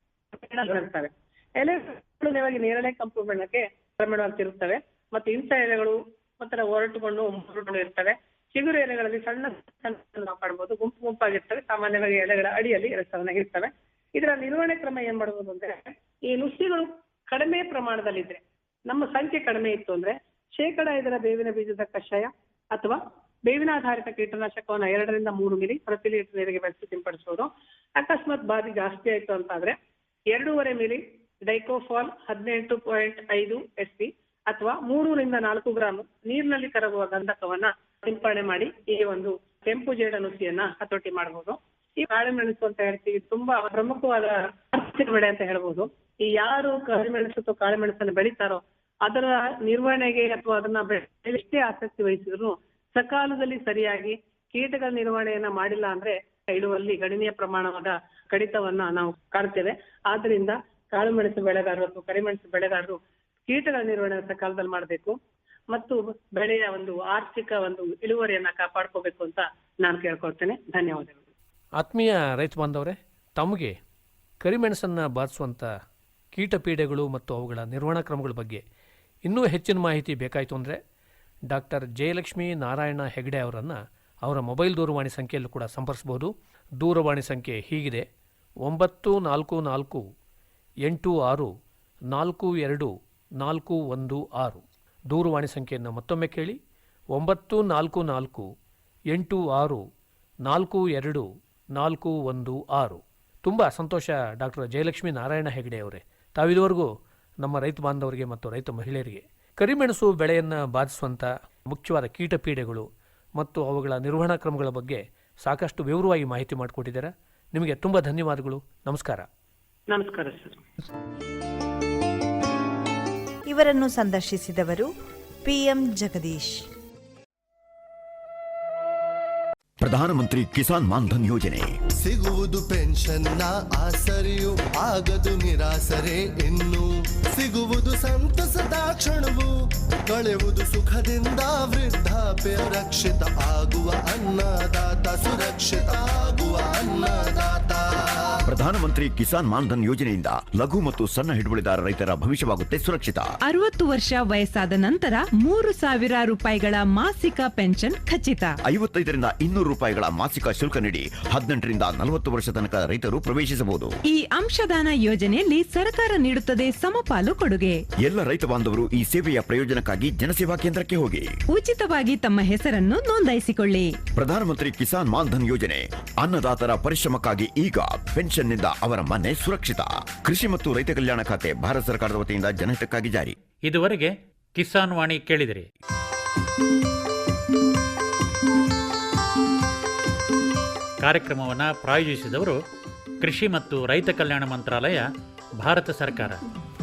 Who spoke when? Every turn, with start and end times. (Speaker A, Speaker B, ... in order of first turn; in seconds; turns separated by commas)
Speaker A: 0.3-29.8, Speaker A: 30.3-65.2, Speaker A: 65.7-71.2, Speaker B: 71.8-73.8, Speaker B: 74.4-75.7, Speaker B: 76.3-78.6, Speaker B: 79.3-80.8, Speaker B: 81.5-88.1, Speaker B: 88.6-90.0, Speaker B: 90.8-91.5, Speaker B: 92.1-96.6, Speaker B: 97.1-98.5, Speaker B: 99.1-99.8, Speaker B: 100.5-106.9, Speaker B: 107.4-119.3, Speaker A: 119.9-120.6, Speaker C: 123.5-124.9, Speaker C: 125.4-126.7, Speaker D: 129.8-131.7, Speaker E: 132.0-139.5, Speaker E: 140.1-147.8, Speaker D: 148.5-153.3, Speaker F: 153.5-158.6, Speaker D: 158.7-163.9, Speaker F: 164.1-167.8, Speaker D: 168.0-171.3, Speaker F: 171.5-174.0, Speaker D: 174.2-183.3, Speaker G: 183.7-185.7, Speaker G: 191.0-192.6, Speaker G: 193.2-195.1, Speaker G: 195.6-196.4